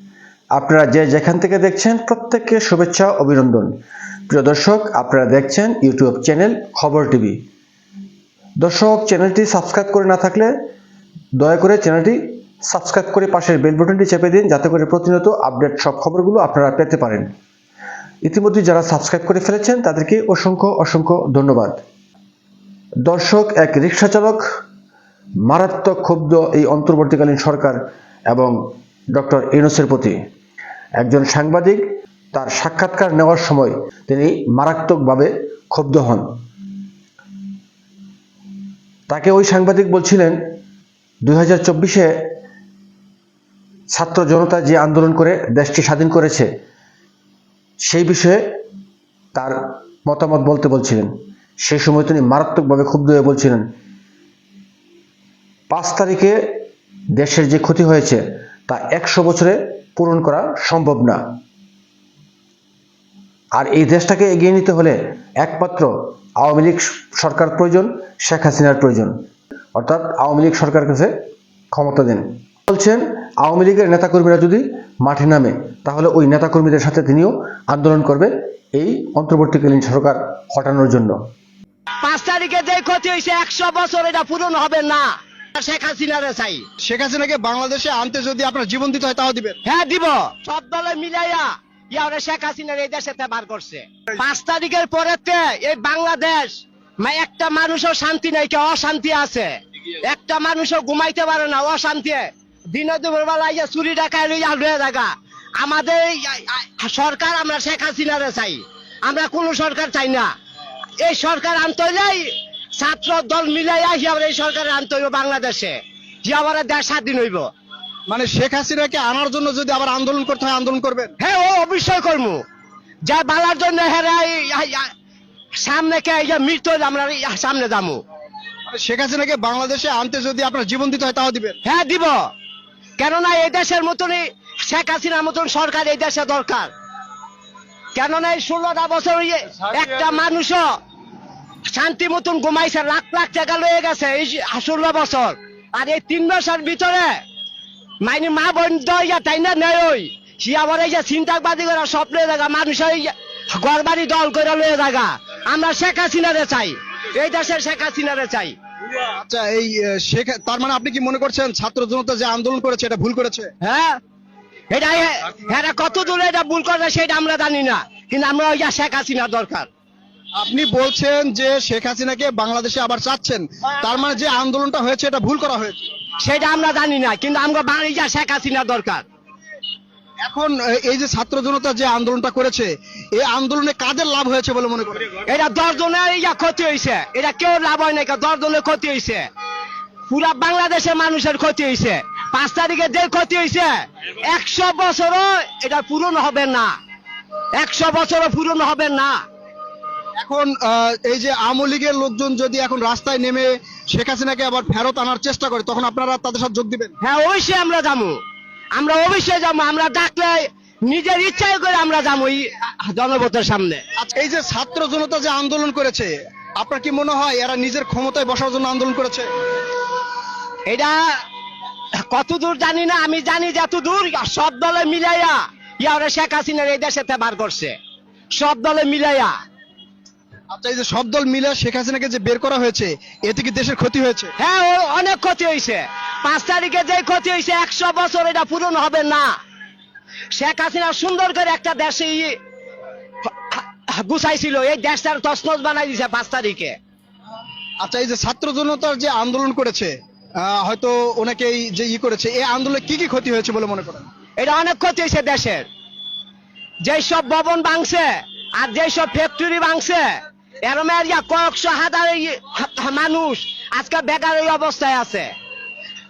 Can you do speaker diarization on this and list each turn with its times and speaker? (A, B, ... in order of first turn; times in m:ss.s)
0:00.5-0:03.8 A
0:04.3-0:07.4 A
0:08.6-0:10.5 A
0:11.4-0:17.3 A
0:18.2-0:21.8 A
0:23.0-0:24.4 A
0:25.4-0:28.5 A
0:29.1-0:30.2 A
0:31.0-0:36.3 A
0:39.1-0:40.4 A
0:41.2-0:42.1 A
0:43.9-0:46.5 A
0:47.8-0:48.4 A
0:49.3-0:51.1 A
0:51.6-0:53.7 A
0:55.7-0:56.4 A
0:57.1-1:01.2 A
1:03.5-1:09.1 A
1:09.7-1:11.1 A
1:11.7-1:21.2 A
1:22.0-1:26.6 B
1:26.8-1:29.6 C
1:29.6-1:50.3 B
1:51.0-1:57.5 B
1:58.1-2:01.1 C
2:01.2-2:02.4 B
2:03.0-2:04.9 B
2:05.6-2:08.0 B
2:08.7-2:11.6 C
2:11.6-2:12.2 B
2:13.0-2:16.7 B
2:17.9-2:20.7 B
2:21.7-2:27.2 B
2:28.0-2:38.5 B
2:39.0-2:43.5 C
2:43.6-2:44.0 B
2:44.7-2:49.7 B
2:50.4-2:55.8 C
2:56.2-2:59.0 B
3:00.2-3:05.2 C
3:05.2-3:09.3 B
3:10.1-3:16.8 B
3:17.5-3:19.2 B
3:20.2-3:26.9 C
3:27.0-3:28.2 B
3:28.7-3:33.8 B
3:34.0-3:39.3 C
3:40.6-3:41.2 B
3:42.1-3:47.8 B
3:48.3-3:49.3 B
3:50.5-3:54.3 C
3:54.4-3:59.3 B
4:00.3-4:02.4 B
4:03.4-4:06.8 B
4:07.8-4:14.1 C
4:14.4-4:15.6 B
4:16.8-4:25.3 B